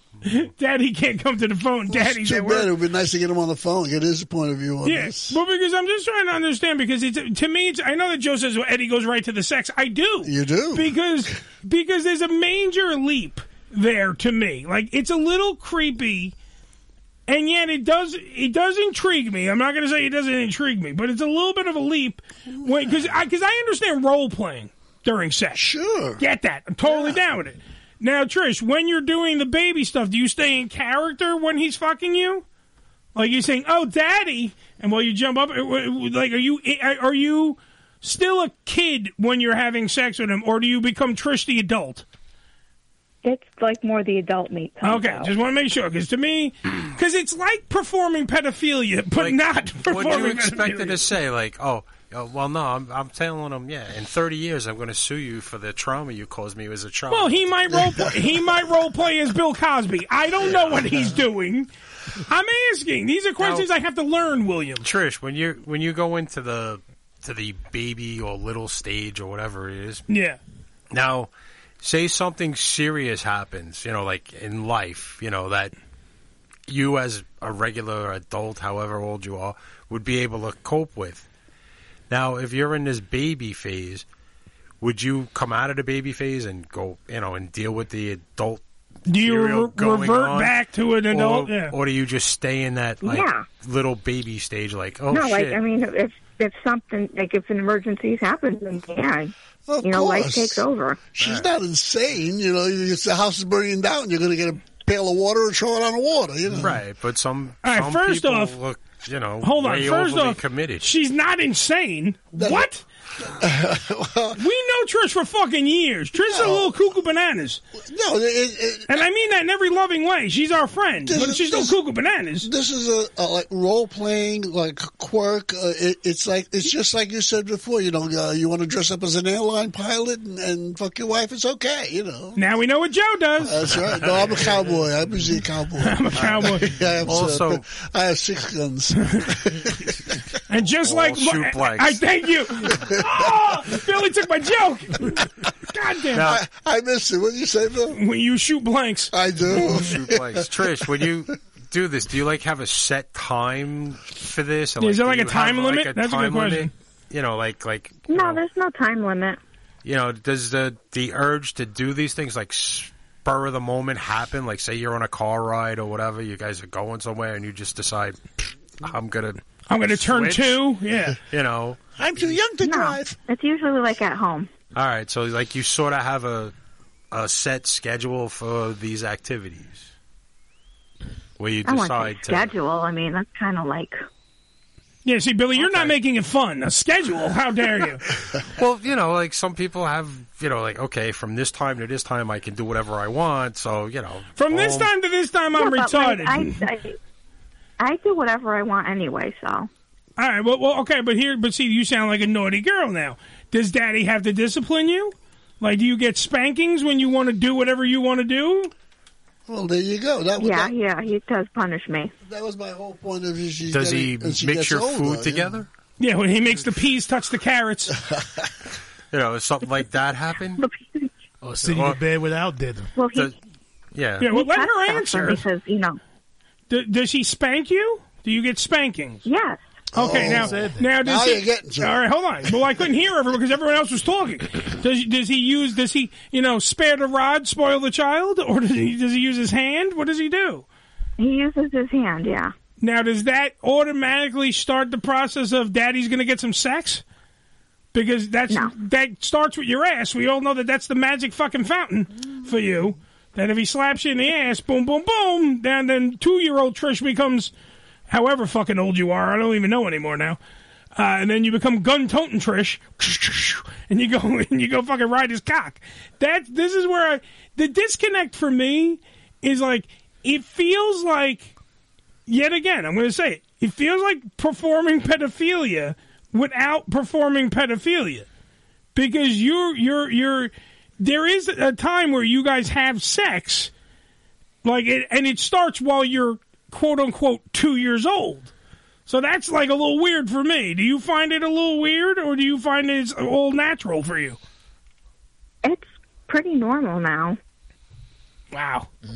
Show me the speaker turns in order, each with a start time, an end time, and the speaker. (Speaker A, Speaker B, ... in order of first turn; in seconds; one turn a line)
Speaker A: 0.2-2.7
Speaker B: 1.9-5.4
Speaker A: 4.8-16.3
Speaker B: 10.2-11.3
Speaker A: 17.3-25.6
Speaker B: 22.5-23.0
Speaker B: 25.5-26.2
Speaker A: 26.2-32.4
Speaker B: 26.9-27.2
Speaker A: 33.1-42.0
Speaker C: 43.2-45.3
Speaker A: 44.8-51.0
Speaker D: 49.2-57.6
Speaker A: 57.1-61.7
Speaker B: 57.9-58.3
Speaker D: 60.4-61.0
Speaker A: 62.3-64.9
Speaker D: 63.4-63.6
Speaker D: 64.8-70.0
Speaker A: 70.1-70.4
Speaker D: 70.9-71.3
Speaker D: 71.8-75.7
Speaker D: 76.7-81.2
Speaker D: 82.1-84.0
Speaker D: 84.8-88.6
Speaker A: 89.1-91.7
Speaker D: 89.1-90.6
Speaker D: 91.1-95.6
Speaker C: 93.0-93.4
Speaker C: 95.1-101.0
Speaker B: 99.7-106.8
Speaker D: 101.2-101.5
Speaker D: 106.6-110.8
Speaker A: 107.6-108.5
Speaker A: 109.4-112.8
Speaker B: 112.3-112.7
Speaker B: 113.2-114.4
Speaker A: 114.4-117.6
Speaker B: 116.2-116.8
Speaker B: 117.8-119.0
Speaker A: 118.9-122.5
Speaker B: 121.0-121.8
Speaker B: 122.4-132.4
Speaker A: 132.3-133.7
Speaker B: 133.4-140.0
Speaker A: 135.8-136.7
Speaker D: 137.1-137.6
Speaker A: 140.5-146.3
Speaker D: 140.8-142.0
Speaker B: 142.8-143.3
Speaker D: 146.2-146.4
Speaker B: 146.2-148.0
Speaker A: 147.9-149.1
Speaker B: 149.1-150.8
Speaker D: 149.5-158.4
Speaker A: 154.8-156.7
Speaker C: 158.1-159.4
Speaker D: 159.8-168.2
Speaker D: 168.8-170.6
Speaker A: 169.7-171.2
Speaker D: 171.3-171.8
Speaker B: 172.0-173.2
Speaker C: 172.6-174.5
Speaker D: 174.7-176.5
Speaker D: 177.1-179.9
Speaker D: 181.4-182.5
Speaker C: 181.6-184.0
Speaker A: 185.0-188.0
Speaker D: 185.6-185.9
Speaker D: 188.5-194.9
Speaker A: 194.3-196.6
Speaker C: 195.6-197.0
Speaker C: 197.8-199.7
Speaker A: 200.2-208.7
Speaker B: 209.5-210.8
Speaker C: 210.4-212.1
Speaker B: 212.2-215.6
Speaker D: 213.7-215.7
Speaker A: 216.0-217.9
Speaker B: 218.0-218.5
Speaker D: 219.1-220.6
Speaker C: 220.6-221.1
Speaker E: 221.4-222.9
Speaker D: 221.6-222.0
Speaker C: 222.9-223.3
Speaker D: 223.9-224.3
Speaker A: 224.2-225.4
Speaker C: 224.3-226.0
Speaker A: 226.7-229.2
Speaker C: 229.2-229.6
Speaker B: 229.9-232.0
Speaker A: 229.9-240.6
Speaker E: 230.1-230.9
Speaker C: 241.2-242.5
Speaker A: 242.8-247.0
Speaker A: 247.9-257.5
Speaker A: 258.1-260.4
Speaker A: 260.9-271.5
Speaker A: 272.3-278.3
Speaker A: 278.9-283.7
Speaker A: 284.6-288.5
Speaker A: 289.1-294.4
Speaker C: 295.6-297.4
Speaker A: 298.5-298.9